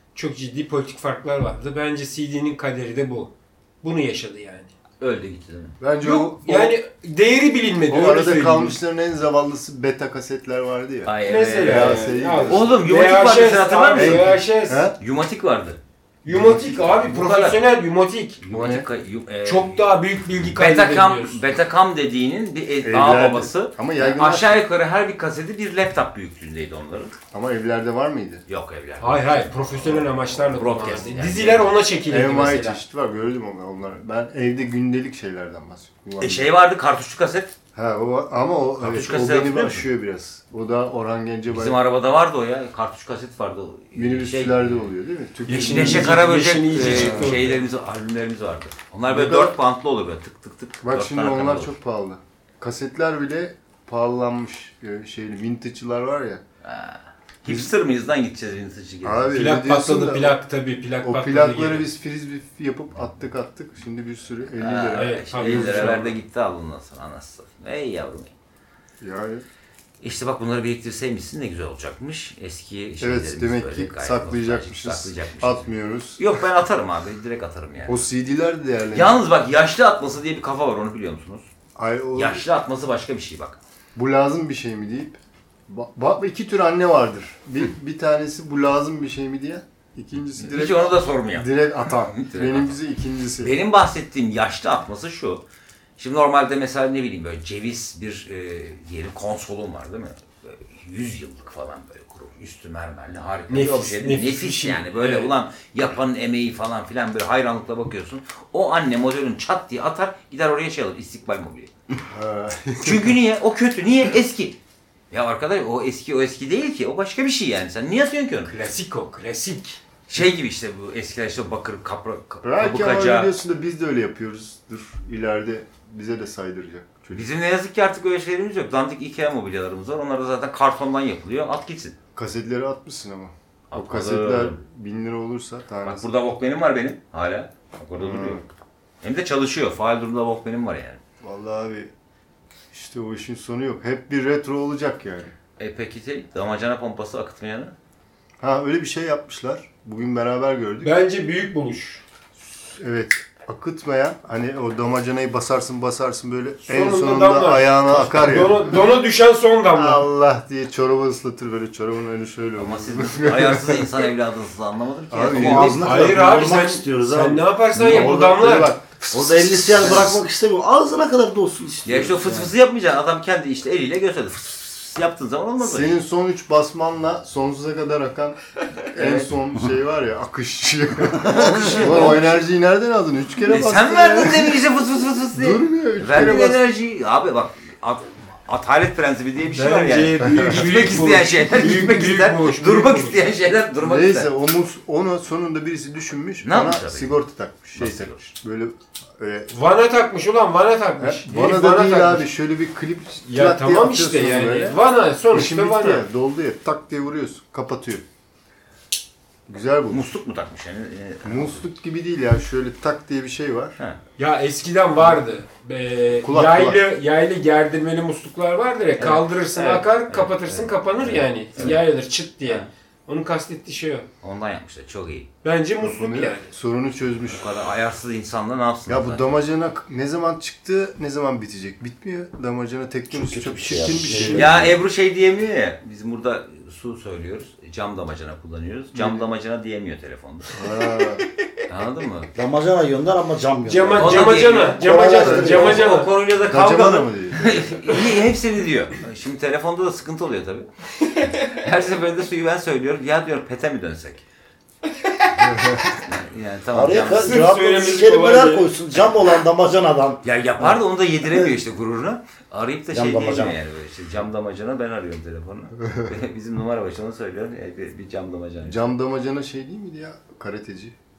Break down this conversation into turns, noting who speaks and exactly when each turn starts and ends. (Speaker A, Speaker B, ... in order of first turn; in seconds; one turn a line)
Speaker A: 0.1-4.7
Speaker B: 5.0-5.8
Speaker C: 5.8-6.7
Speaker A: 6.0-8.8
Speaker C: 7.9-12.7
Speaker B: 11.0-14.4
Speaker A: 11.2-14.9
Speaker C: 13.9-14.9
Speaker B: 15.0-17.6
Speaker A: 16.2-18.4
Speaker B: 18.4-27.2
Speaker C: 18.5-18.9
Speaker A: 19.4-21.4
Speaker C: 22.8-24.6
Speaker C: 27.3-28.4
Speaker B: 28.5-31.7
Speaker A: 29.0-32.8
Speaker C: 32.1-36.5
Speaker B: 36.2-37.5
Speaker C: 37.7-41.8
Speaker B: 38.8-39.9
Speaker B: 41.5-44.9
Speaker C: 43.9-46.2
Speaker A: 45.5-47.6
Speaker B: 45.5-51.7
Speaker C: 46.9-47.4
Speaker C: 49.1-49.5
Speaker C: 50.8-56.4
Speaker B: 56.6-59.5
Speaker C: 59.0-60.4
Speaker A: 59.3-61.9
Speaker C: 61.0-66.1
Speaker B: 64.5-68.3
Speaker A: 64.9-66.2
Speaker C: 69.0-69.4
Speaker B: 70.0-78.0
Speaker C: 73.0-76.2
Speaker C: 77.9-79.2
Speaker B: 78.9-81.5
Speaker C: 81.8-82.4
Speaker B: 82.2-83.6
Speaker C: 83.9-93.5
Speaker B: 90.3-92.8
Speaker B: 93.4-95.4
Speaker B: 96.0-111.7
Speaker A: 103.5-105.3
Speaker C: 112.1-113.1
Speaker B: 112.8-114.6
Speaker B: 115.1-118.5
Speaker A: 118.5-119.8
Speaker B: 120.1-123.3
Speaker C: 122.4-127.3
Speaker B: 127.1-131.9
Speaker C: 132.2-136.0
Speaker B: 133.7-134.6
Speaker B: 135.8-138.4
Speaker C: 138.0-138.4
Speaker B: 139.0-141.0
Speaker C: 141.2-141.9
Speaker C: 142.7-145.3
Speaker B: 145.6-147.7
Speaker C: 148.4-150.9
Speaker A: 150.8-152.0
Speaker C: 152.5-158.8
Speaker A: 156.6-160.0
Speaker C: 159.7-164.0
Speaker B: 162.6-166.1
Speaker C: 165.1-165.8
Speaker D: 165.3-167.5
Speaker A: 165.8-168.7
Speaker C: 167.7-170.1
Speaker D: 169.1-172.5
Speaker B: 169.1-170.2
Speaker B: 171.8-176.0
Speaker C: 175.6-184.6
Speaker B: 178.9-179.3
Speaker D: 181.2-182.2
Speaker B: 181.3-182.4
Speaker B: 183.4-194.3
Speaker C: 185.3-186.6
Speaker A: 189.5-193.2
Speaker C: 190.2-191.0
Speaker C: 193.8-199.5
Speaker B: 196.4-197.2
Speaker B: 197.7-198.3
Speaker A: 199.5-202.3
Speaker C: 201.0-204.8
Speaker A: 203.3-206.0
Speaker C: 205.3-208.0
Speaker C: 209.5-210.1
Speaker B: 209.9-211.6
Speaker C: 211.2-213.8
Speaker A: 214.2-224.1
Speaker C: 216.2-216.8
Speaker B: 219.0-221.8
Speaker B: 224.2-225.3
Speaker A: 225.4-226.5
Speaker C: 225.8-227.4
Speaker B: 227.3-229.3
Speaker C: 228.9-234.8
Speaker D: 233.1-234.7
Speaker A: 234.0-234.4
Speaker B: 234.3-240.5
Speaker C: 238.9-239.2
Speaker C: 240.5-241.3
Speaker B: 241.7-242.3
Speaker D: 242.3-245.8
Speaker A: 243.7-246.1
Speaker B: 244.0-244.8
Speaker C: 244.9-245.7
Speaker B: 245.4-250.7
Speaker C: 246.4-248.0
Speaker A: 251.0-251.5
Speaker B: 251.5-254.2
Speaker A: 254.9-255.4
Speaker B: 256.0-257.5
Speaker D: 256.7-261.5
Speaker A: 257.1-258.7
Speaker B: 260.2-268.8
Speaker D: 262.9-263.6
Speaker C: 268.6-270.9